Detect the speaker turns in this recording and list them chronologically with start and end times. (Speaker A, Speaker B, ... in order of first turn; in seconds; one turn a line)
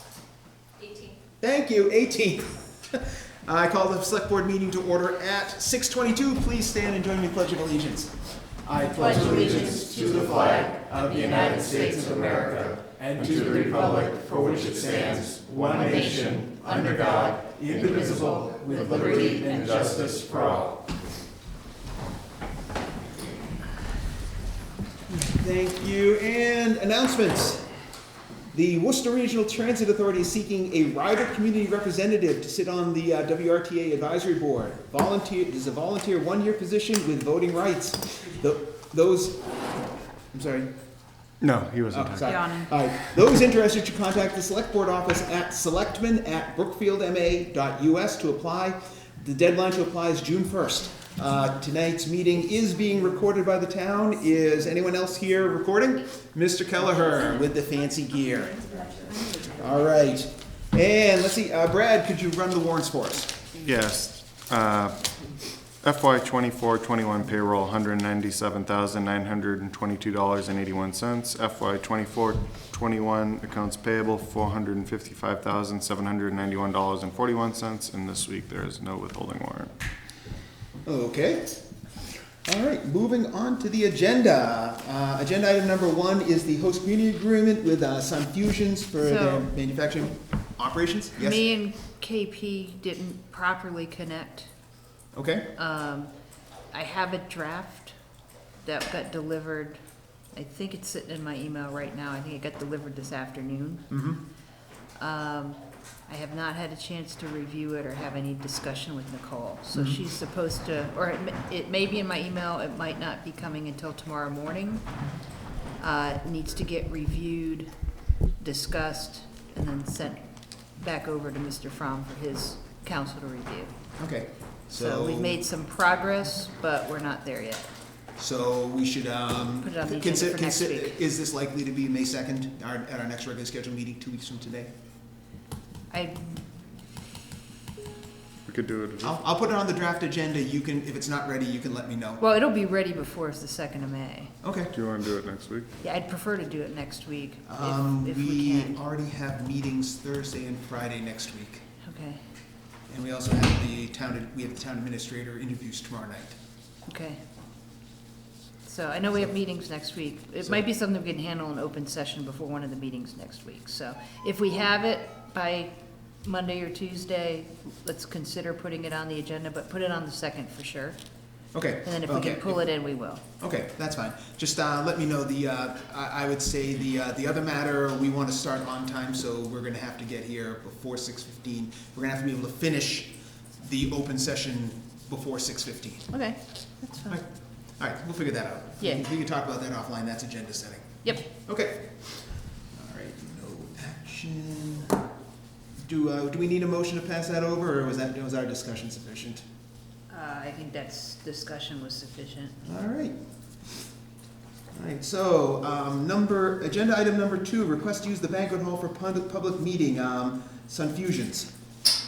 Speaker A: 1.4-20.7
Speaker B: 8.8-12.7
Speaker C: 13.2-17.1
Speaker B: 13.4-20.2
Speaker C: 18.7-20.6
Speaker A: 25.1-27.7
Speaker A: 28.5-39.4
Speaker A: 40.3-40.7
Speaker C: 41.4-42.3
Speaker A: 41.9-58.8
Speaker B: 42.2-42.7
Speaker B: 59.1-59.4
Speaker A: 59.4-63.4
Speaker C: 63.6-65.1
Speaker C: 65.8-79.7
Speaker A: 80.8-81.6
Speaker A: 82.4-91.4
Speaker B: 89.0-89.5
Speaker B: 91.2-94.5
Speaker A: 95.1-95.5
Speaker B: 95.5-96.1
Speaker B: 96.7-98.0
Speaker B: 98.6-99.8
Speaker B: 100.3-103.9
Speaker A: 103.9-104.2
Speaker B: 105.0-115.0
Speaker A: 109.7-110.0
Speaker B: 115.8-117.8
Speaker B: 118.4-123.8
Speaker A: 124.0-125.4
Speaker B: 124.7-127.7
Speaker A: 128.2-134.7
Speaker B: 129.6-131.0
Speaker B: 135.9-136.4
Speaker C: 138.4-139.2
Speaker A: 139.0-142.2
Speaker B: 142.2-144.3
Speaker A: 144.4-144.7
Speaker C: 144.7-145.7
Speaker B: 145.8-148.8
Speaker A: 147.4-151.7
Speaker B: 151.8-152.2
Speaker A: 152.9-156.4
Speaker B: 156.9-157.2
Speaker B: 158.6-171.0
Speaker A: 171.5-172.6
Speaker B: 171.8-173.2
Speaker A: 173.4-186.1
Speaker B: 186.1-187.2
Speaker A: 187.1-194.9
Speaker A: 195.8-199.4
Speaker B: 200.1-202.6
Speaker A: 202.6-203.2
Speaker A: 204.7-211.5